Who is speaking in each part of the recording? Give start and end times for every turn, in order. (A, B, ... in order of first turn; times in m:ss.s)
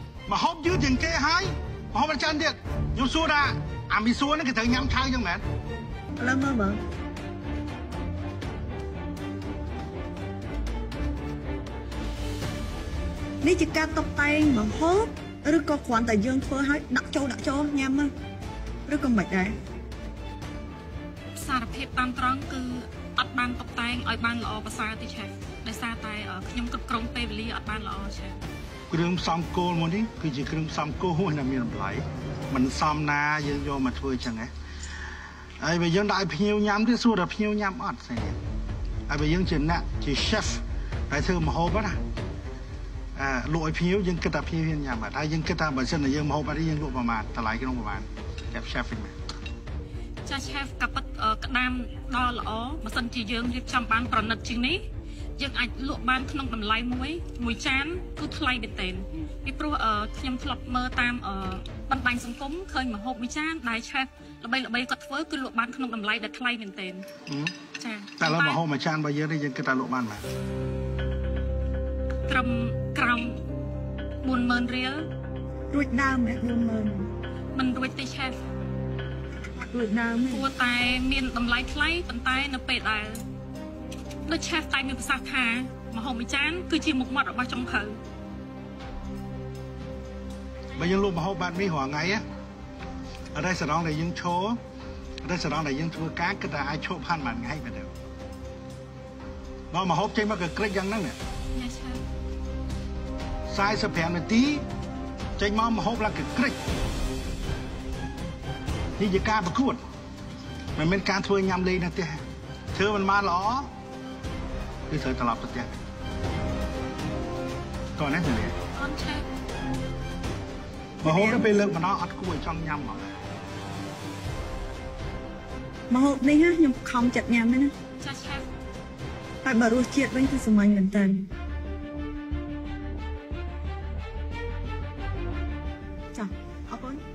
0:00.3-0:05.4 A
0:06.2-0:06.8 B
0:13.4-0:18.1 B
0:18.8-0:19.5 B
0:21.4-0:28.4 C
0:28.9-0:34.5 A
0:35.6-0:38.4 A
0:39.1-0:42.0 A
0:43.2-0:49.1 A
0:50.2-0:54.8 C
0:55.4-1:07.0 C
1:07.2-1:07.6 A
1:07.8-1:08.6 C
1:08.2-1:10.2 A
1:12.3-1:13.4 C
1:14.2-1:15.0 C
1:15.7-1:17.1 B
1:17.5-1:18.4 C
1:19.6-1:20.4 B
1:20.3-1:23.2 C
1:24.2-1:28.0 C
1:30.7-1:32.2 A
1:33.3-1:34.6 A
1:35.2-1:37.9 A
1:39.7-1:41.2 A
1:41.5-1:42.0 C
1:43.5-1:44.6 A
1:45.4-1:46.6 A
1:49.0-1:49.8 A
1:50.8-1:52.2 A
1:52.7-1:53.7 A
1:54.9-1:55.8 A
1:58.0-1:58.5 A
1:58.7-1:59.2 C
2:01.0-2:03.1 A
2:01.0-2:01.5 B
2:05.9-2:07.7 B
2:08.0-2:08.4 C
2:09.4-2:11.3 B
2:16.1-2:17.0 B